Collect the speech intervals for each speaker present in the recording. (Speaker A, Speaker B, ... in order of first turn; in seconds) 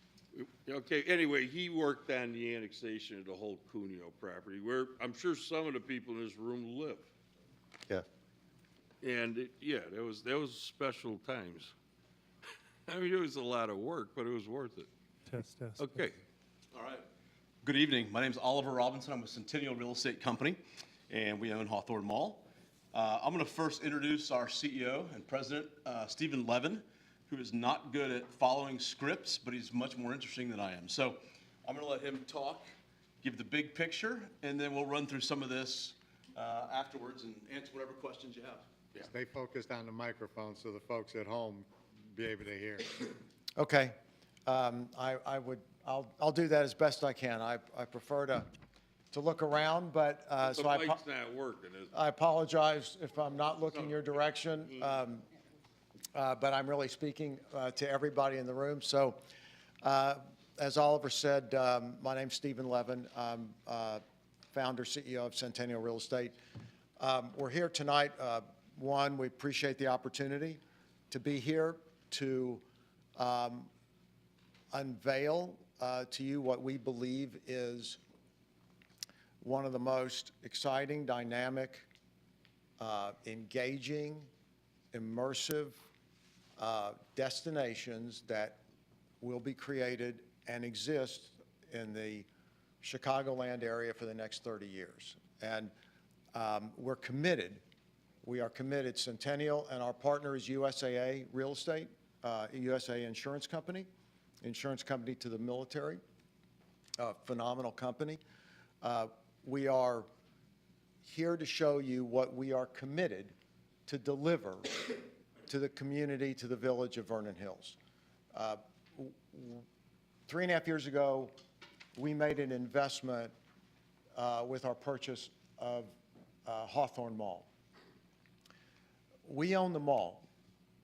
Speaker A: 0.3-7.1, 9.0-11.7, 12.9-14.9, 15.8-16.2, 50.5-51.9, 53.7-54.2
Speaker B: 16.7-17.1, 17.6-32.7, 33.2-38.6
Speaker C: 39.0-43.0
Speaker D: 43.5-44.0, 44.5-48.5, 49.1-51.0, 51.9-55.2, 56.1-59.2, 59.8-66.4, 67.0-72.6, 73.2-73.7, 74.7-78.0, 79.4-81.9, 82.8-84.3, 84.9-85.8, 86.6-88.6, 89.2-92.3, 92.8-95.7, 96.3-97.6, 98.2-103.9, 104.4-106.0, 107.0-108.2, 108.8-110.1, 111.0-113.3, 113.9-117.8, 118.3-119.7, 120.3-121.3, 122.0-123.3, 124.2-127.5, 129.2-130.3